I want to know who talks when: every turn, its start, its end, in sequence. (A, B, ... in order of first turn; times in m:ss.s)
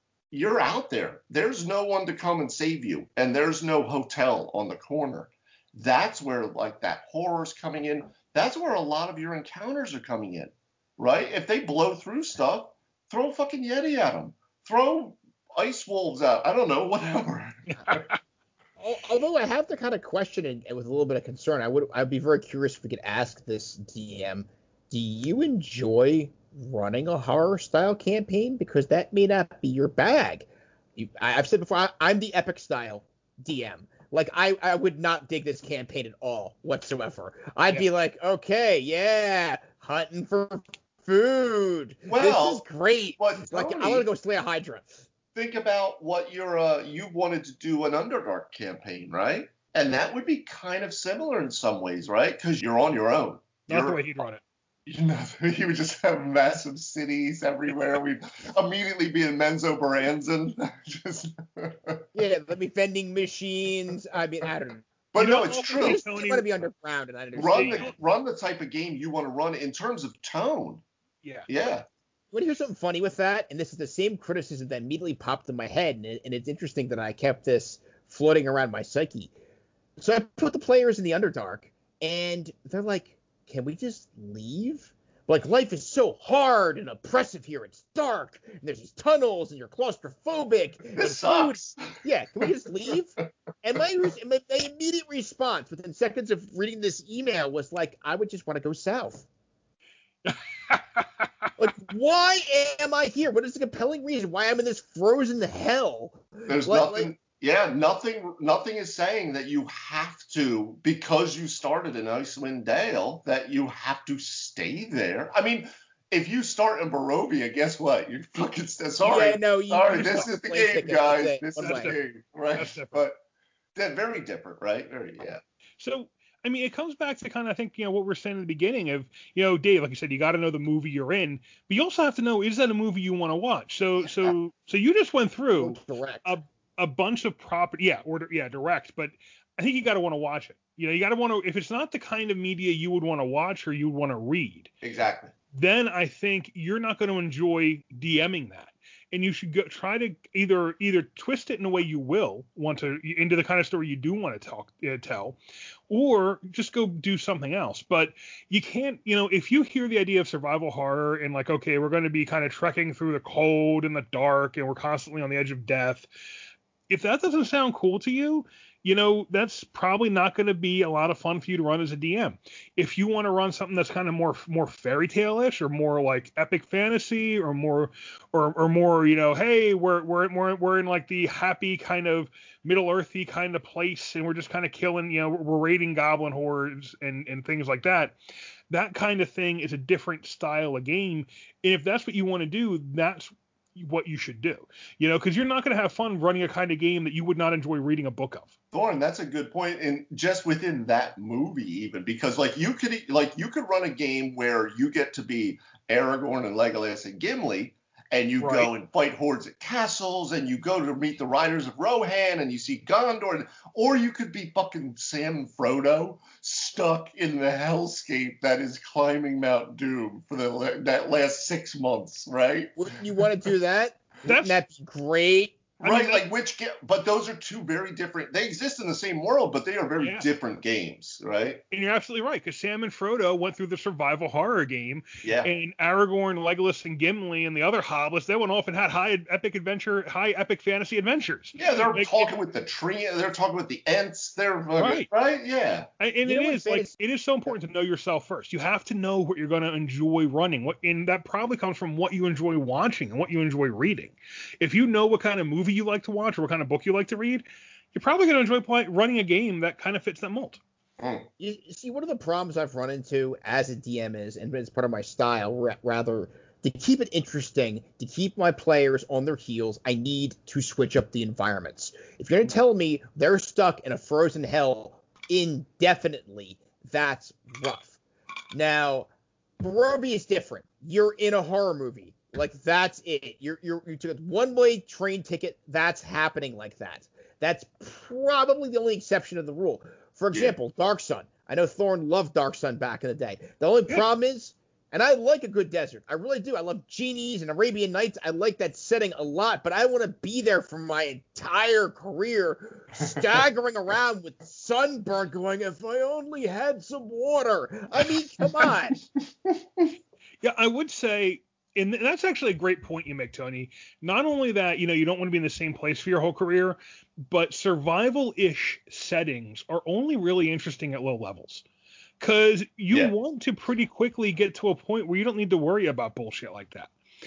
0:00.3-0:18.0 A
0:17.7-0:18.2 B
0:18.8-0:45.0 C
0:42.1-0:42.6 A
0:43.2-0:44.1 A
0:45.4-0:54.0 A
0:53.7-0:54.4 B
0:54.9-1:02.0 A
1:02.1-1:04.8 C
1:05.1-1:06.0 A
1:05.2-1:06.4 B
1:05.7-1:07.9 C
1:07.3-1:10.8 A
1:07.5-1:07.9 B
1:11.2-1:11.5 B
1:11.5-1:11.9 A
1:12.3-1:19.3 C
1:20.0-1:39.3 C
1:31.0-1:31.9 A
1:40.2-1:41.5 B
1:41.6-1:47.1 C
1:46.5-2:03.2 A
1:59.0-2:01.9 C
1:59.9-2:00.3 B
2:01.6-2:02.0 B
2:02.5-2:03.0 B
2:03.8-2:05.4 A
2:05.8-2:24.7 B
2:15.6-2:16.3 C
2:24.8-2:25.3 A
2:25.5-2:35.4 B
2:35.9-2:46.1 B
2:46.9-3:08.1 B
3:08.7-3:18.5 B
3:18.7-3:42.8 A
3:28.4-3:28.7 B
3:42.8-3:45.6 C
3:44.2-3:44.6 B
3:45.8-3:46.2 B
3:45.8-3:51.6 A
3:50.0-3:50.3 B
3:51.7-4:02.3 B
3:55.2-3:55.5 A
4:01.6-4:05.9 A
4:04.8-4:05.1 B
4:06.0-4:20.6 B
4:06.2-4:07.0 C
4:21.0-4:21.3 A
4:21.4-4:38.0 C
4:38.5-4:39.1 C
4:39.6-5:09.0 C
5:10.4-5:16.8 B
5:17.3-5:21.6 B
5:22.2-5:26.9 B